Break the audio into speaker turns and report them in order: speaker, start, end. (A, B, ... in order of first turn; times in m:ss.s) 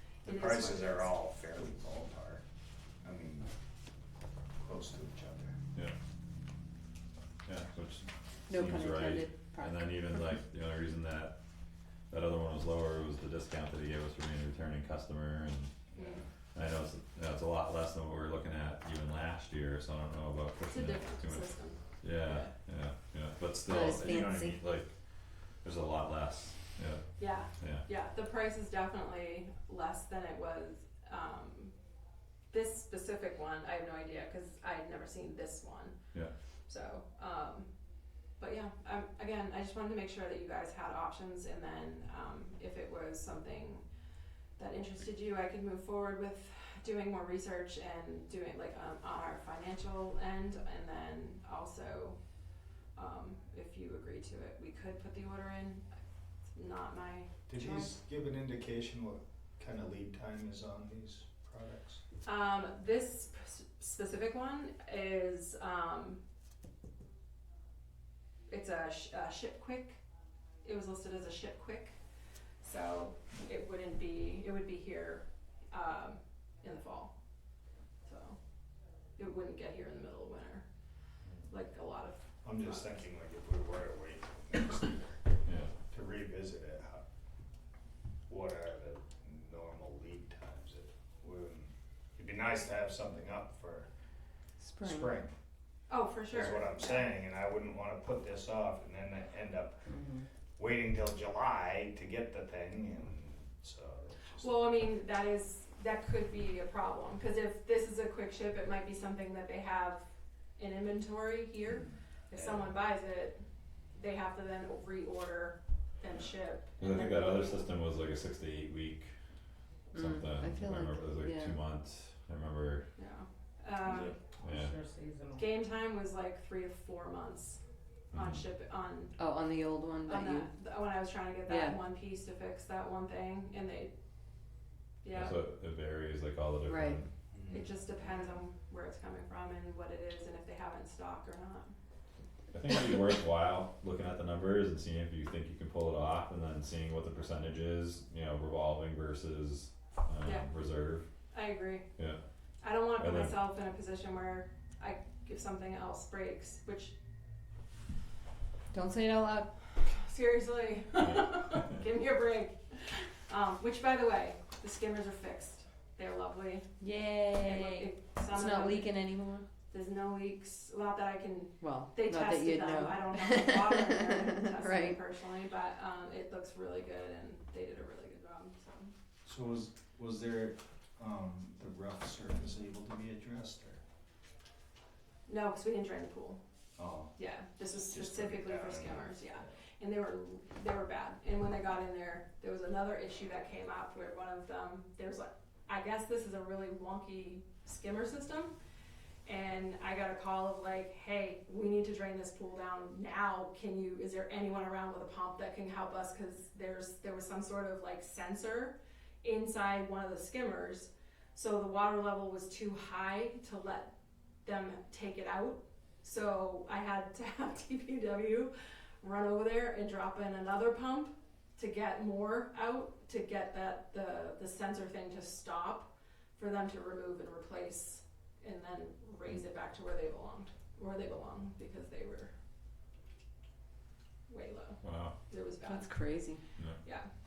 0:00.2-0:01.1 A
0:00.2-0:02.4 B
0:03.0-0:03.5 B
0:04.6-0:05.6 B
0:07.4-0:11.4 C
0:08.5-0:09.8 D
0:12.1-0:15.8 C
0:15.9-0:16.2 B
0:16.0-0:16.2 A
0:16.5-0:24.9 C
0:20.7-0:22.5 A
0:23.7-0:24.6 D
0:25.6-0:27.0 C
0:27.2-0:31.7 A
0:27.6-0:27.8 C
0:32.5-0:36.0 A
0:36.7-0:37.7 A
0:38.4-0:43.8 A
0:44.6-0:52.2 A
0:52.9-0:55.8 A
0:56.5-0:57.3 A
0:57.5-1:02.0 B
1:02.2-1:06.2 A
1:08.5-1:10.0 A
1:10.6-1:12.0 A
1:12.6-1:17.1 A
1:18.0-1:18.4 A
1:19.2-1:20.6 A
1:21.5-1:23.0 A
1:22.4-1:25.2 B
1:25.4-1:25.7 C
1:25.9-1:27.0 B
1:28.3-1:33.9 B
1:34.7-1:35.0 D
1:34.8-1:35.3 B
1:35.9-1:37.1 A
1:36.3-1:44.8 B
1:44.4-1:53.4 A
1:52.3-1:52.8 B
1:53.9-1:57.6 A
1:56.8-1:59.1 C
1:59.9-2:01.5 D
1:59.9-2:02.8 C
2:03.0-2:04.2 A
2:04.4-2:04.8 C
2:05.3-2:07.6 A
2:08.1-2:08.4 C
2:08.1-2:09.1 A
2:09.2-2:10.5 D
2:10.0-2:13.9 A
2:11.5-2:11.8 D
2:15.0-2:15.4 A
2:15.1-2:17.1 C
2:16.7-2:17.0 D
2:17.3-2:18.3 B
2:17.5-2:21.7 A
2:22.5-2:31.0 C
2:30.2-2:30.5 A
2:31.3-2:31.8 A
2:32.6-2:36.9 A
2:33.0-2:33.4 C
2:38.7-2:39.5 D
2:39.8-2:46.7 A
2:46.8-2:49.4 D
2:47.3-2:49.0 A
2:49.7-2:58.9 A
2:51.6-2:53.7 D
2:54.6-2:54.9 D
2:59.2-3:03.8 B
3:05.2-3:06.4 A
3:06.8-3:07.1 B
3:07.1-3:18.5 A
3:07.9-3:09.4 B
3:19.2-3:33.9 A
3:34.4-3:52.3 A
3:54.3-3:56.1 A
3:54.8-3:55.1 C
3:55.6-3:56.4 D
3:56.8-3:57.1 A